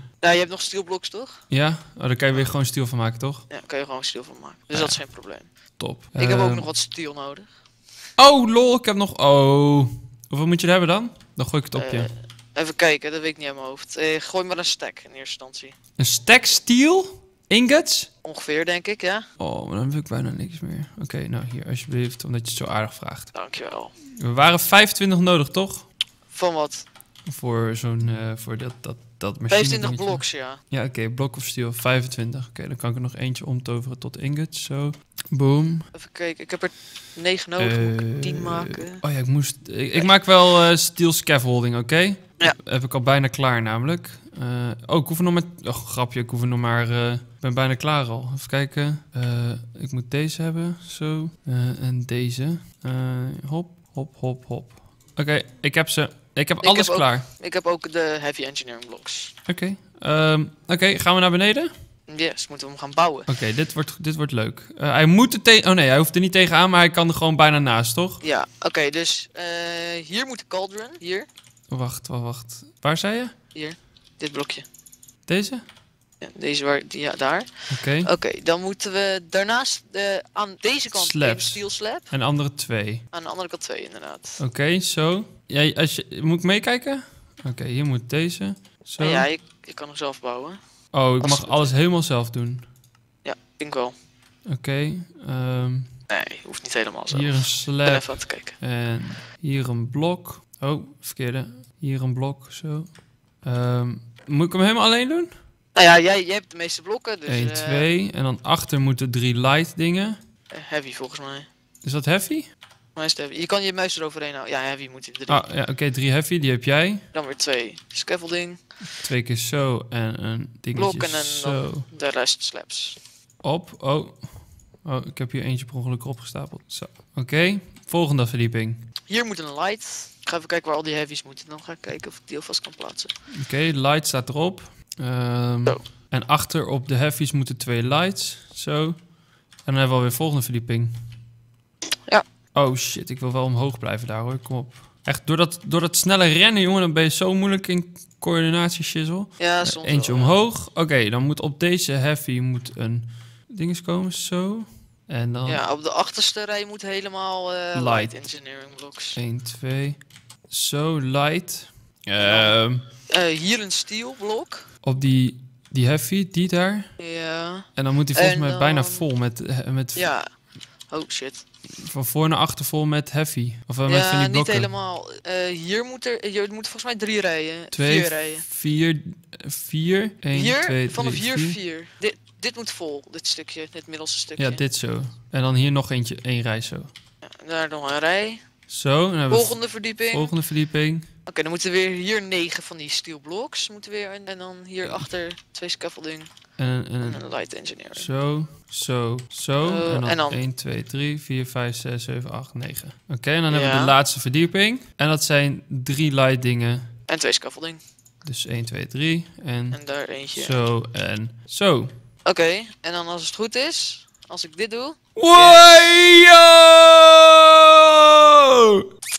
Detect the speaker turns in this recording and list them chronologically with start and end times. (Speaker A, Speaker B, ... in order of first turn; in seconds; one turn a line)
Speaker A: 0.2-1.4
Speaker B: 1.5-3.5
Speaker A: 3.5-5.5
Speaker B: 4.7-5.1
Speaker B: 5.8-6.7
Speaker A: 6.2-7.5
Speaker B: 8.2-12.1
Speaker A: 11.8-15.7
Speaker B: 16.0-18.1
Speaker A: 18.2-19.2
Speaker B: 19.4-23.3
Speaker A: 23.3-23.9
Speaker B: 24.1-25.9
Speaker A: 26.3-26.9
Speaker B: 27.2-35.9
Speaker A: 29.5-30.6
Speaker A: 35.9-39.0
Speaker B: 37.6-57.3
Speaker A: 56.6-59.3
Speaker B: 59.5-61.7
Speaker A: 62.1-63.3
Speaker B: 63.3-68.2
Speaker A: 68.2-71.3
Speaker B: 71.7-73.3
Speaker A: 73.5-74.6
Speaker B: 75.3-75.6
Speaker A: 76.2-82.1
Speaker B: 77.7-78.1
Speaker B: 80.9-83.0
Speaker A: 83.1-84.4
Speaker B: 84.4-89.3
Speaker A: 89.0-90.6
Speaker B: 90.9-92.7
Speaker A: 91.2-91.7
Speaker A: 93.2-93.9
Speaker B: 94.5-95.9
Speaker A: 96.1-98.5
Speaker B: 97.1-105.3
Speaker A: 105.7-107.9
Speaker B: 107.2-110.2
Speaker A: 110.5-111.5
Speaker B: 111.8-112.5
Speaker A: 112.9-115.5
Speaker B: 115.3-117.0
Speaker A: 117.1-118.6
Speaker B: 119.0-121.9
Speaker A: 120.8-123.0
Speaker B: 123.4-128.9
Speaker A: 129.1-133.1
Speaker B: 133.3-141.0
Speaker B: 142.5-155.6
Speaker A: 149.4-150.3
Speaker A: 155.4-159.2
Speaker B: 157.7-158.2
Speaker B: 159.2-162.8
Speaker A: 162.2-162.6
Speaker A: 163.1-164.7
Speaker B: 164.8-166.9
Speaker A: 167.0-169.1
Speaker B: 167.7-170.1
Speaker A: 169.9-170.3
Speaker A: 170.9-171.4
Speaker B: 171.8-174.7
Speaker A: 173.9-178.4
Speaker B: 177.7-181.6
Speaker A: 180.3-184.6
Speaker B: 184.4-186.9
Speaker A: 187.2-188.4
Speaker B: 188.7-191.1
Speaker A: 189.3-190.3
Speaker A: 191.3-196.3
Speaker B: 194.8-195.1
Speaker B: 196.6-197.2
Speaker A: 197.0-198.1
Speaker B: 197.9-206.9
Speaker A: 199.6-200.4
Speaker A: 203.5-203.9
Speaker A: 207.1-207.8
Speaker B: 208.2-209.8
Speaker A: 209.7-210.6
Speaker B: 210.3-211.9
Speaker A: 212.2-215.7
Speaker B: 215.2-218.8